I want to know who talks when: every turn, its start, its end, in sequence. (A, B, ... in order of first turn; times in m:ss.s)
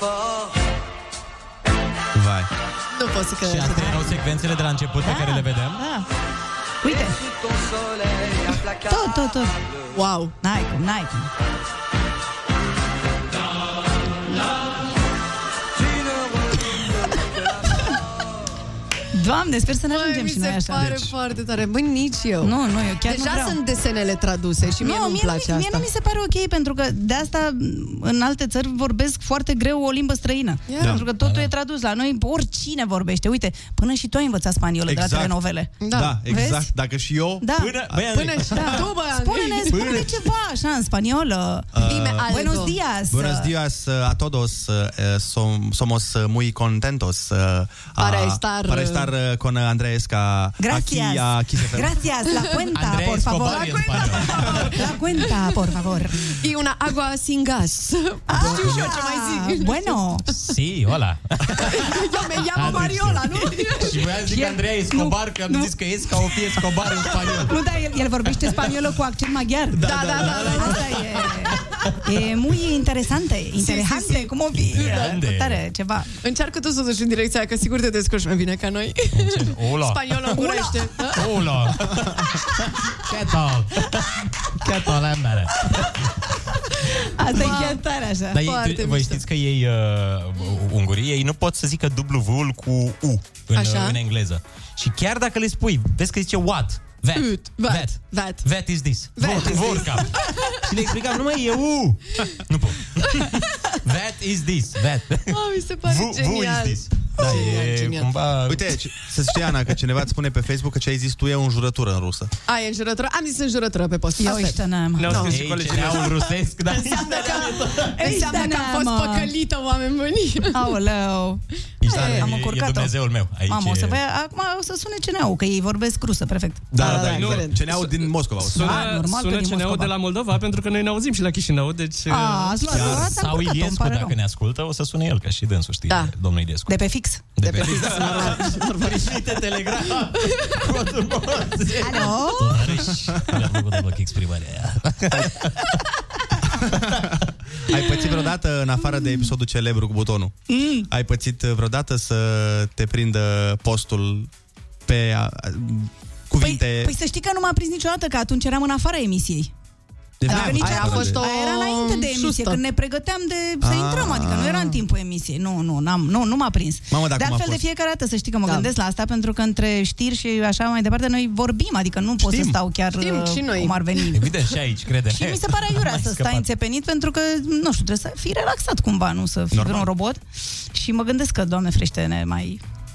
0:02.1-0:02.5 A
0:02.9-0:04.1 B
0:03.4-0:05.8 C
0:05.0-0:06.1 D
0:06.8-0:07.2 D
0:08.8-0:09.6 D
0:09.9-0:10.3 B
0:10.4-0:11.3 D
0:19.1-0:20.9 D
0:19.9-0:25.9 B
0:20.8-0:21.1 A
0:22.4-0:23.6 D
0:24.8-0:36.7 D
0:30.7-0:31.0 B
0:30.8-0:31.0 A
0:31.0-0:31.5 C
0:34.9-0:35.4 A
0:35.8-0:36.2 B
0:35.9-0:38.0 A
0:37.4-0:37.8 D
0:37.6-0:38.9 C
0:38.1-0:39.9 B
0:38.6-0:41.8 D
0:41.7-0:42.3 A
0:41.8-0:42.8 B
0:42.3-0:43.5 D
0:43.1-0:52.0 A
0:48.0-0:49.1 B
0:50.6-0:56.3 D
0:52.7-0:54.6 C
0:54.2-0:54.8 B
0:56.3-1:00.2 B
0:58.3-1:00.3 D
0:58.4-0:59.0 C
1:00.3-1:07.6 C
1:01.5-1:04.1 B
1:04.3-1:05.7 D
1:07.4-1:16.1 D
1:09.8-1:11.9 C
1:09.8-1:11.0 B
1:13.6-1:15.1 B
1:14.6-1:15.6 C
1:16.2-1:21.3 B
1:19.2-1:20.4 C
1:20.3-1:20.8 D
1:21.1-1:25.9 C
1:27.2-1:28.4 D
1:27.3-1:27.8 B
1:28.3-1:48.7 C
1:28.4-1:29.2 B
1:33.5-1:34.0 B
1:37.1-1:38.5 B
1:39.2-1:40.6 B
1:45.3-1:48.1 B
1:47.2-1:47.6 A
1:48.5-1:52.3 A
1:52.5-1:55.3 B
1:54.2-1:55.2 D
1:55.0-1:56.2 E
1:55.1-1:58.1 C
1:56.7-2:00.7 B
1:58.0-1:59.3 D
2:00.5-2:01.4 D
2:01.8-2:04.0 C
2:01.9-2:02.3 B
2:02.0-2:02.9 D
2:03.5-2:06.9 D
2:06.7-2:08.8 A
2:06.7-2:07.7 B
2:07.0-2:07.8 E
2:08.5-2:09.9 D
2:08.5-2:12.6 E
2:12.1-2:14.2 D
2:12.7-2:13.1 A
2:12.7-2:16.8 C
2:16.7-2:17.4 D
2:17.4-2:25.6 C
2:17.4-2:19.0 B
2:21.8-2:22.7 D
2:26.6-2:27.1 A
2:27.7-2:34.3 A
2:30.5-2:30.9 D
2:34.9-2:37.0 A
2:36.4-2:39.5 D
2:40.2-2:41.2 A
2:40.3-2:42.6 B
2:40.3-2:54.3 D
2:43.6-2:44.8 A
2:46.9-2:47.6 A
2:48.4-2:48.7 B
2:52.2-2:52.6 A
2:53.0-2:53.8 B
2:54.1-2:56.5 C
2:55.1-3:00.2 D
2:59.5-2:59.9 A
3:00.7-3:02.6 D